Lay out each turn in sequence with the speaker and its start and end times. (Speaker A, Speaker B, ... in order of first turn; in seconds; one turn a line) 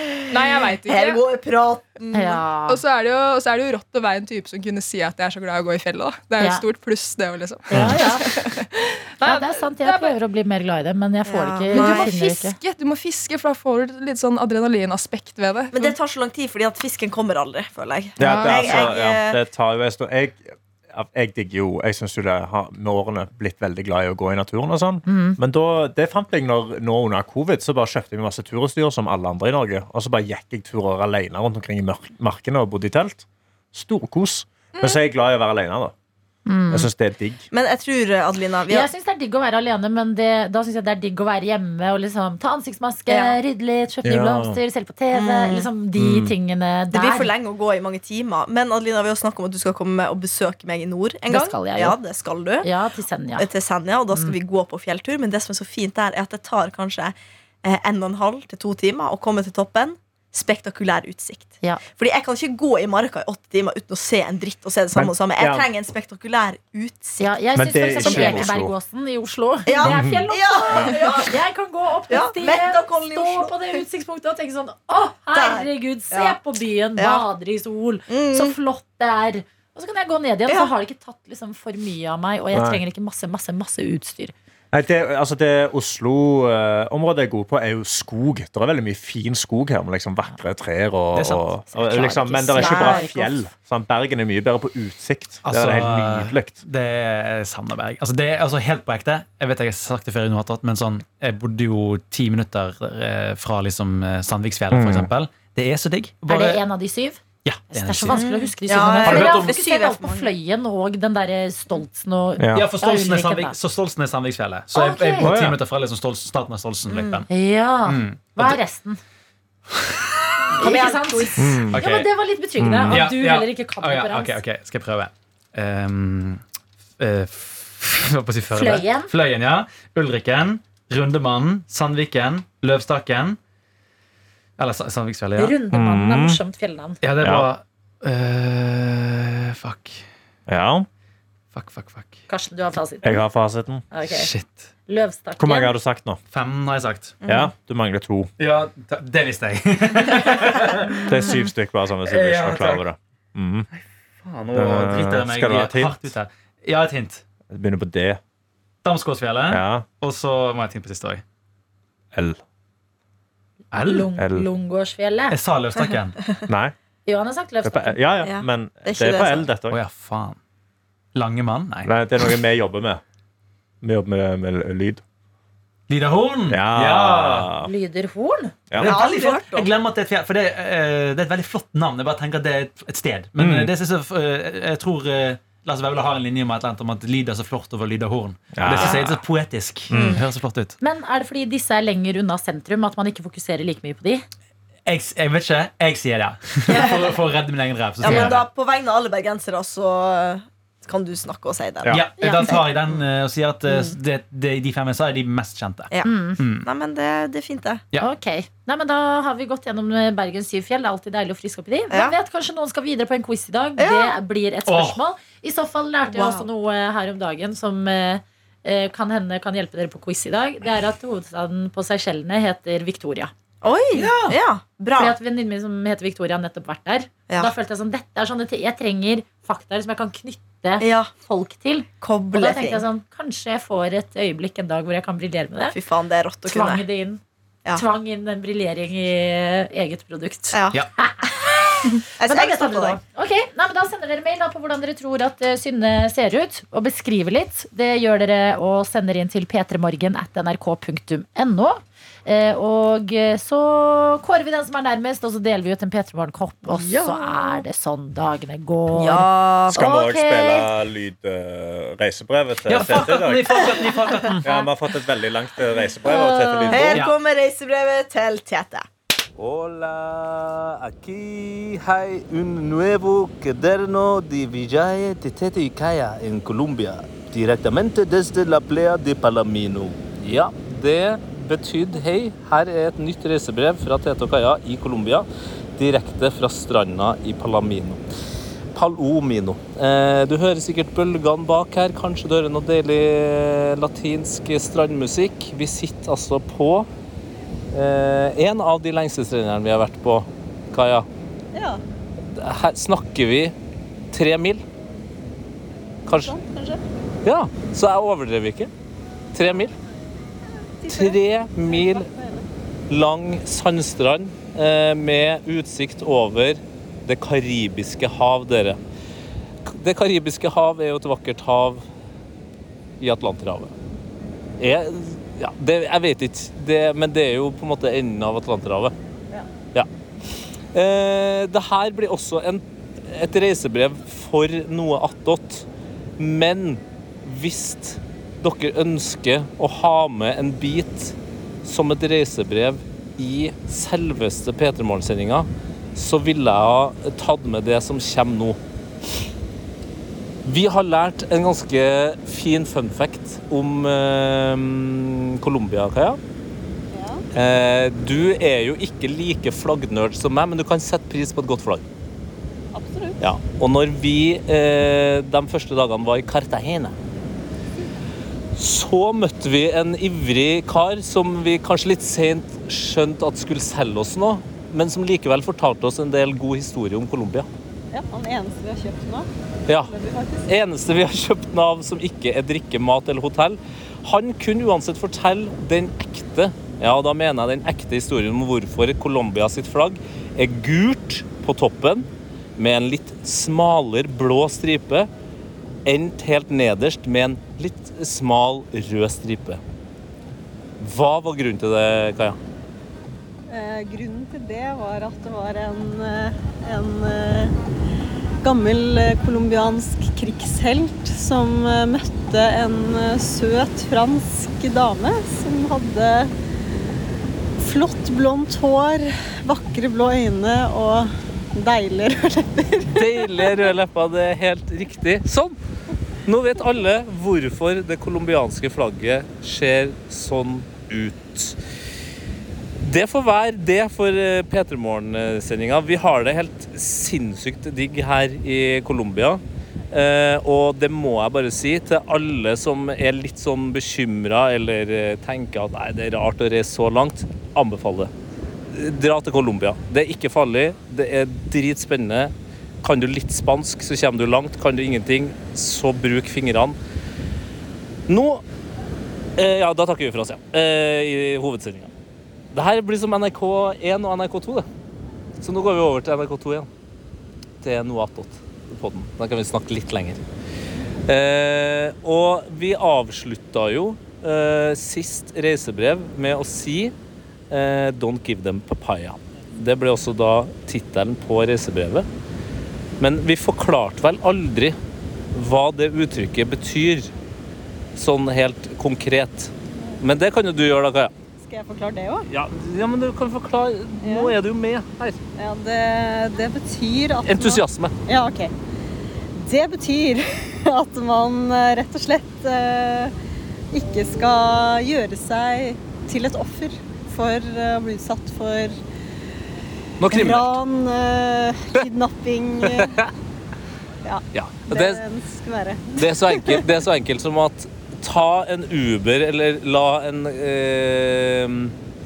Speaker A: 0.3-1.2
Speaker B: 0.9-2.4
Speaker C: 2.1-2.8
Speaker A: 2.7-10.1
Speaker C: 7.7-8.3
Speaker D: 7.7-8.0
Speaker C: 9.2-12.6
Speaker B: 11.2-12.1
Speaker A: 11.7-15.9
Speaker B: 15.7-19.4
Speaker D: 18.2-35.9
Speaker C: 18.2-18.9
Speaker C: 25.1-25.4
Speaker A: 34.7-35.0
Speaker C: 36.5-36.9
Speaker D: 36.7-37.4
Speaker B: 37.5-38.9
Speaker C: 38.7-47.3
Speaker B: 43.1-43.4
Speaker D: 44.0-44.6
Speaker B: 45.1-45.7
Speaker D: 46.0-46.3
Speaker B: 46.9-52.7
Speaker C: 51.3-52.0
Speaker C: 52.6-53.5
Speaker B: 53.4-68.5
Speaker D: 64.9-65.7
Speaker C: 67.2-84.3
Speaker D: 67.5-68.7
Speaker B: 69.7-71.4
Speaker D: 69.8-70.9
Speaker B: 72.1-73.8
Speaker B: 75.3-76.4
Speaker B: 77.0-77.2
Speaker B: 78.1-78.5
Speaker D: 82.5-82.8
Speaker D: 84.7-96.6
Speaker E: 91.1-91.5
Speaker C: 91.7-93.4
Speaker B: 92.6-93.0
Speaker E: 95.4-106.6
Speaker D: 104.7-105.1
Speaker C: 106.3-113.5
Speaker E: 107.4-108.2
Speaker B: 108.1-110.3
Speaker E: 108.9-109.5
Speaker D: 112.4-112.7
Speaker E: 112.5-117.3
Speaker C: 114.7-115.3
Speaker D: 115.2-115.6
Speaker B: 116.9-117.2
Speaker C: 117.3-119.0
Speaker E: 117.9-118.6
Speaker B: 120.5-121.6
Speaker C: 120.6-124.4
Speaker D: 121.4-121.8
Speaker E: 121.7-122.1
Speaker D: 122.6-123.2
Speaker E: 122.9-126.4
Speaker E: 127.0-133.4
Speaker C: 128.5-129.1
Speaker E: 134.6-135.6
Speaker C: 135.4-137.0
Speaker D: 135.7-136.4
Speaker E: 137.0-140.1
Speaker D: 137.2-137.5
Speaker D: 140.5-140.9
Speaker E: 141.5-142.2
Speaker C: 142.3-143.2
Speaker D: 143.0-143.8
Speaker C: 143.9-144.3
Speaker E: 144.1-144.7
Speaker C: 144.9-145.8
Speaker D: 145.4-146.2
Speaker E: 146.3-147.2
Speaker B: 147.2-147.5
Speaker D: 147.2-148.3
Speaker E: 148.4-151.3
Speaker D: 151.0-153.7
Speaker C: 151.1-151.5
Speaker E: 152.0-152.8
Speaker E: 153.7-157.2
Speaker D: 154.5-156.0
Speaker D: 157.5-158.2
Speaker E: 158.8-161.2
Speaker D: 159.5-159.9
Speaker D: 162.1-162.4
Speaker E: 163.7-164.1
Speaker C: 163.8-165.4
Speaker D: 164.2-164.5
Speaker E: 165.3-166.2
Speaker D: 166.5-166.7
Speaker C: 167.1-168.0
Speaker D: 167.6-169.8
Speaker B: 168.2-169.5
Speaker E: 169.7-170.4
Speaker E: 171.1-172.3
Speaker D: 171.8-173.0
Speaker D: 173.8-175.0
Speaker E: 175.9-177.5
Speaker D: 176.5-177.7
Speaker C: 177.6-178.6
Speaker D: 178.7-179.0
Speaker E: 178.8-190.8
Speaker B: 178.8-179.7
Speaker D: 183.3-183.7
Speaker D: 188.5-189.1
Speaker D: 189.9-190.2
Speaker B: 189.9-190.2
Speaker C: 190.8-194.2
Speaker E: 194.8-198.4
Speaker B: 196.7-197.2
Speaker B: 198.0-202.7
Speaker D: 198.1-198.3
Speaker E: 201.9-206.7
Speaker C: 202.2-202.6
Speaker B: 203.7-203.9
Speaker B: 205.9-207.8
Speaker C: 206.0-206.4
Speaker C: 208.0-223.3
Speaker B: 213.8-214.1
Speaker E: 214.7-215.0
Speaker B: 216.1-216.4
Speaker B: 223.6-225.2
Speaker E: 223.9-224.4
Speaker C: 224.9-235.8
Speaker B: 230.8-231.1
Speaker B: 232.0-232.8
Speaker B: 235.7-236.8
Speaker C: 236.4-237.2
Speaker C: 237.7-260.7
Speaker B: 240.5-240.8
Speaker B: 241.5-243.0
Speaker B: 256.7-257.6
Speaker B: 258.9-259.8
Speaker D: 259.7-263.7
Speaker E: 262.6-264.6
Speaker D: 264.4-267.0
Speaker C: 266.0-267.0
Speaker B: 266.7-268.9
Speaker E: 266.9-267.1
Speaker F: 269.4-288.0
Speaker F: 288.7-296.9
Speaker F: 297.7-301.1
Speaker G: 301.5-301.8
Speaker F: 302.3-303.5
Speaker F: 304.1-304.6
Speaker F: 306.1-306.3
Speaker G: 306.1-306.8
Speaker F: 307.2-308.7
Speaker F: 309.3-309.7
Speaker G: 310.8-312.4
Speaker F: 310.9-312.1
Speaker F: 312.9-318.8
Speaker F: 319.7-321.9
Speaker F: 323.0-323.7
Speaker F: 324.6-328.9
Speaker F: 330.7-335.6
Speaker F: 336.2-348.6
Speaker F: 350.4-356.2
Speaker G: 356.9-357.2
Speaker F: 357.3-361.8
Speaker G: 362.7-363.3
Speaker F: 363.2-366.9
Speaker F: 368.5-377.5
Speaker G: 377.9-380.5
Speaker F: 379.7-379.9
Speaker F: 380.5-395.1
Speaker F: 395.9-399.6
Speaker F: 400.8-402.4
Speaker G: 403.5-407.5
Speaker G: 408.4-416.3
Speaker G: 417.6-423.7
Speaker F: 422.9-425.6
Speaker F: 426.2-431.6
Speaker F: 432.8-448.1
Speaker F: 448.7-456.8
Speaker F: 458.1-458.4
Speaker F: 459.4-461.9
Speaker F: 462.5-464.6
Speaker F: 465.4-466.7
Speaker F: 467.6-470.2
Speaker F: 471.1-476.9
Speaker F: 477.5-482.1
Speaker F: 483.0-484.8
Speaker F: 485.3-487.1
Speaker F: 487.9-491.1
Speaker G: 489.7-490.0
Speaker G: 491.4-492.3
Speaker F: 492.2-495.2
Speaker G: 494.0-494.3
Speaker G: 495.4-498.5
Speaker F: 497.2-498.0
Speaker G: 499.3-503.1
Speaker G: 503.7-508.8
Speaker F: 510.0-510.6
Speaker G: 510.1-513.0
Speaker F: 512.6-513.1
Speaker G: 514.0-516.6
Speaker F: 514.3-515.0
Speaker F: 516.0-521.7